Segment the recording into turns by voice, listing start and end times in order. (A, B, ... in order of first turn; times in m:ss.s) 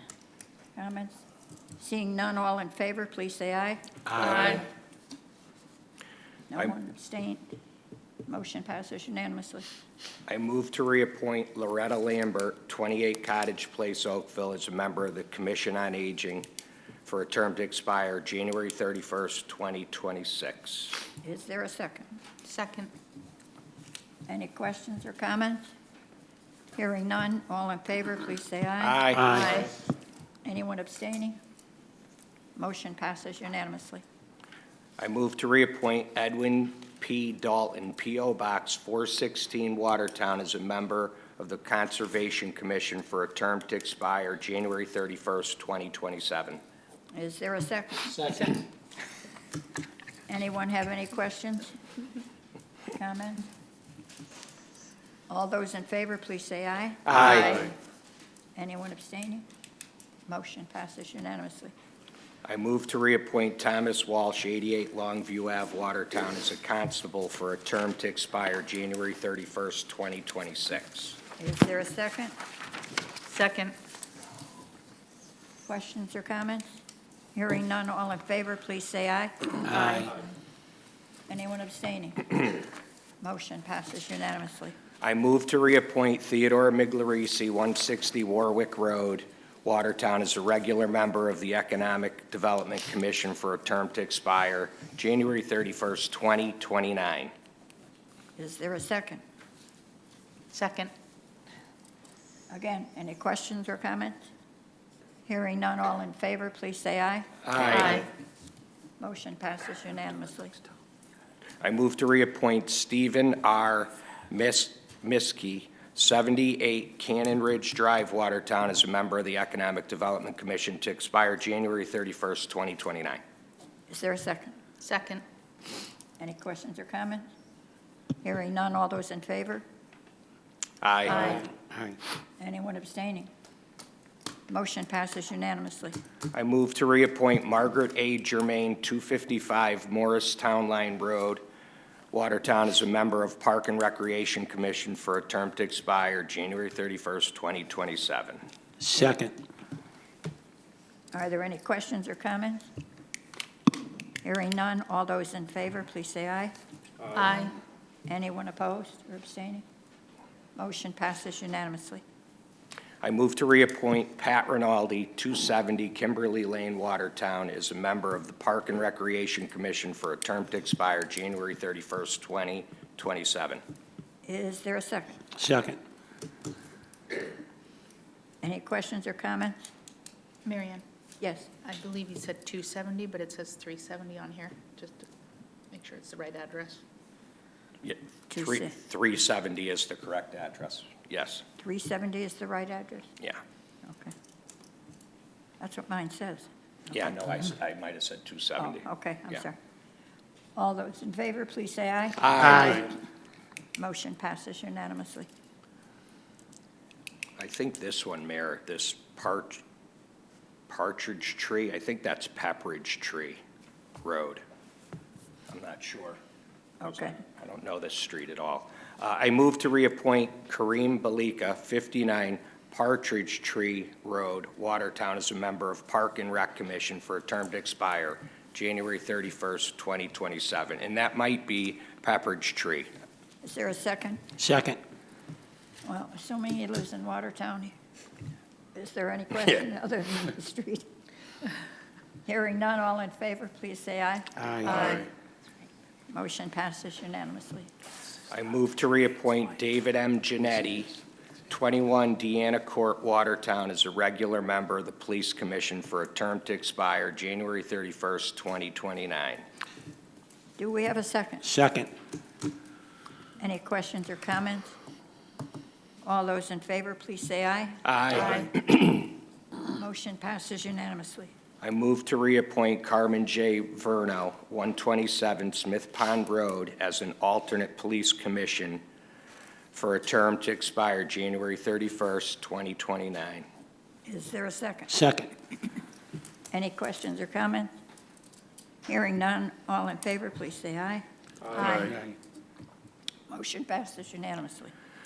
0:00.8-0:01.2 A
0:01.8-0:04.7 A
0:04.2-0:04.6 B
0:06.5-0:07.4 A
0:08.3-0:09.7 A
0:10.3-0:16.5 C
0:17.0-0:21.0 C
0:21.2-0:22.2 A
0:22.4-0:22.9 B
0:24.3-0:25.7 A
0:26.8-0:29.0 A
0:28.8-0:29.4 C
0:29.1-0:29.5 D
0:29.3-0:29.7 B
0:30.4-0:31.4 A
0:32.6-0:34.0 A
0:35.0-0:46.6 C
0:47.1-0:48.6 A
0:50.3-0:51.8 A
0:52.9-0:53.4 A
0:55.3-0:57.7 A
0:57.0-0:57.7 C
0:58.6-0:59.4 A
1:00.3-1:01.7 A
1:02.4-1:11.2 C
1:11.4-1:12.3 A
1:13.2-1:13.8 B
1:15.7-1:16.7 A
1:17.3-1:20.1 A
1:19.6-1:20.0 D
1:21.3-1:22.6 A
1:23.2-1:24.8 A
1:25.0-1:37.3 C
1:38.4-1:39.2 A
1:40.5-1:40.9 B
1:42.5-1:44.2 A
1:45.2-1:47.9 A
1:47.4-1:48.0 C
1:47.6-1:48.1 B
1:49.0-1:50.6 A
1:51.6-2:03.2 C
2:03.9-2:04.6 A
2:04.8-2:05.2 B
2:06.2-2:07.3 A
2:08.2-2:09.6 A
2:10.8-2:11.4 C
2:11.2-2:11.4 A
2:11.6-2:12.0 D
2:12.4-2:13.3 A
2:14.5-2:16.0 A
2:16.3-2:21.4 C
2:22.1-2:28.4 C
2:28.8-2:29.3 D
2:31.1-2:32.7 A
2:34.2-2:36.5 A
2:37.1-2:37.6 B
2:38.1-2:39.6 A
2:40.6-2:42.0 A
2:43.0-2:53.6 C
2:54.2-2:55.2 A
2:55.4-2:55.8 D
2:58.4-2:59.7 A
3:00.4-3:00.8 B
3:01.2-3:01.5 A
3:01.6-3:05.1 B
3:05.7-3:06.8 B
3:07.8-3:11.4 C
3:08.3-3:08.7 A
3:11.6-3:13.1 A
3:13.8-3:14.1 A
3:15.6-3:16.5 A
3:16.9-3:19.4 C
3:18.6-3:19.6 A
3:20.6-3:22.8 A
3:22.2-3:22.9 C
3:23.8-3:25.3 A
3:27.4-3:29.6 C
3:30.7-3:33.4 C
3:34.0-3:34.4 C
3:35.5-3:36.2 C
3:36.8-3:37.2 A
3:36.9-3:52.9 C
3:53.4-3:54.2 A
3:54.4-3:54.8 D
3:55.8-3:57.7 A
3:58.8-4:00.9 A
4:02.2-4:05.1 A
4:04.4-4:04.9 D
4:06.1-4:07.7 A
4:08.3-4:10.9 C
4:11.5-4:19.4 C
4:20.6-4:21.4 A
4:21.4-4:21.9 D
4:23.4-4:24.8 A
4:26.0-4:27.8 A
4:27.8-4:29.1 C
4:29.7-4:31.3 A
4:31.6-4:38.8 C
4:39.7-4:43.4 C
4:44.1-4:45.0 A
4:44.9-4:45.3 D
4:46.5-4:47.7 A
4:48.9-4:52.0 A
4:51.6-4:51.9 B
4:53.3-4:54.7 A